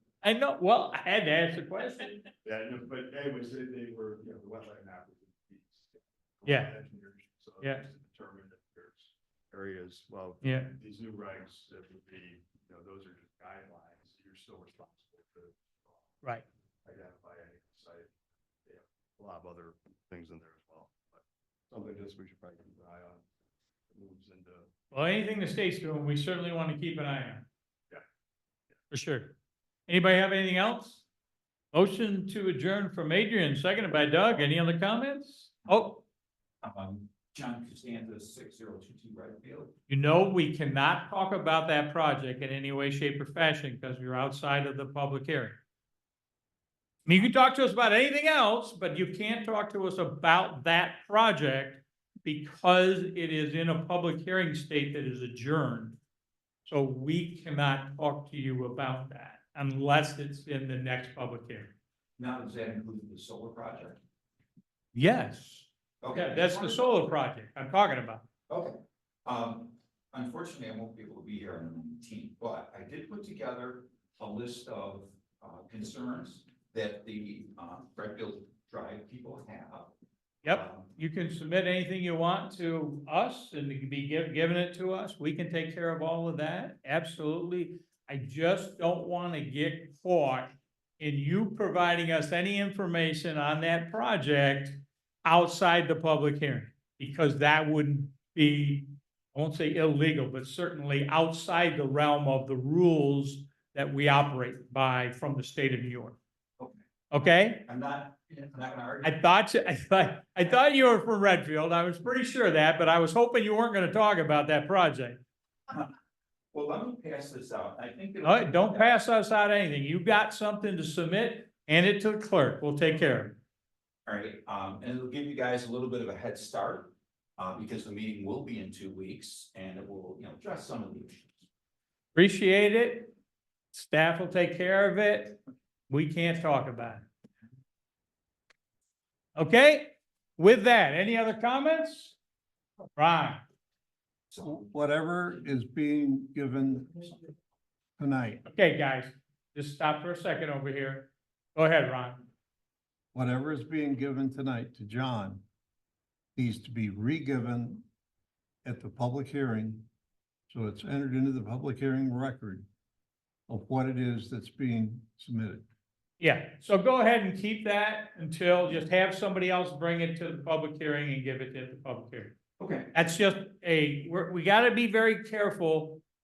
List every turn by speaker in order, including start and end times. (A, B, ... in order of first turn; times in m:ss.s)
0:00.2-0:02.2 A
0:02.4-0:16.2 B
0:06.4-0:06.7 A
0:10.4-0:10.8 A
0:16.8-0:18.1 B
0:18.6-0:23.3 B
0:23.9-0:24.7 B
0:24.9-0:27.5 A
0:28.9-0:29.4 A
0:29.9-0:31.0 A
0:31.7-0:36.0 A
0:36.6-0:39.7 C
0:39.9-0:45.6 A
0:47.1-0:56.0 A
0:56.7-1:01.7 A
1:02.2-1:04.0 C
1:04.9-1:08.2 A
1:06.0-1:06.9 C
1:08.5-1:19.9 C
1:20.4-1:46.2 A
1:20.5-1:20.9 C
1:47.1-1:47.7 A
1:47.7-1:49.1 C
1:49.0-1:55.2 A
1:56.5-1:58.9 C
1:58.2-2:03.4 A
2:04.1-2:11.5 C
2:12.2-2:13.1 A
2:13.7-2:17.1 A
2:19.4-2:22.2 A
2:23.0-2:23.4 A
2:24.4-2:27.2 D
2:28.0-2:28.4 D
2:28.4-2:32.3 A
2:33.1-2:35.4 D
2:36.4-2:37.9 D
2:38.6-2:39.9 D
2:40.5-2:42.7 D
2:43.5-2:45.7 D
2:46.2-2:52.4 A
2:52.6-2:52.9 C
2:52.9-2:56.0 A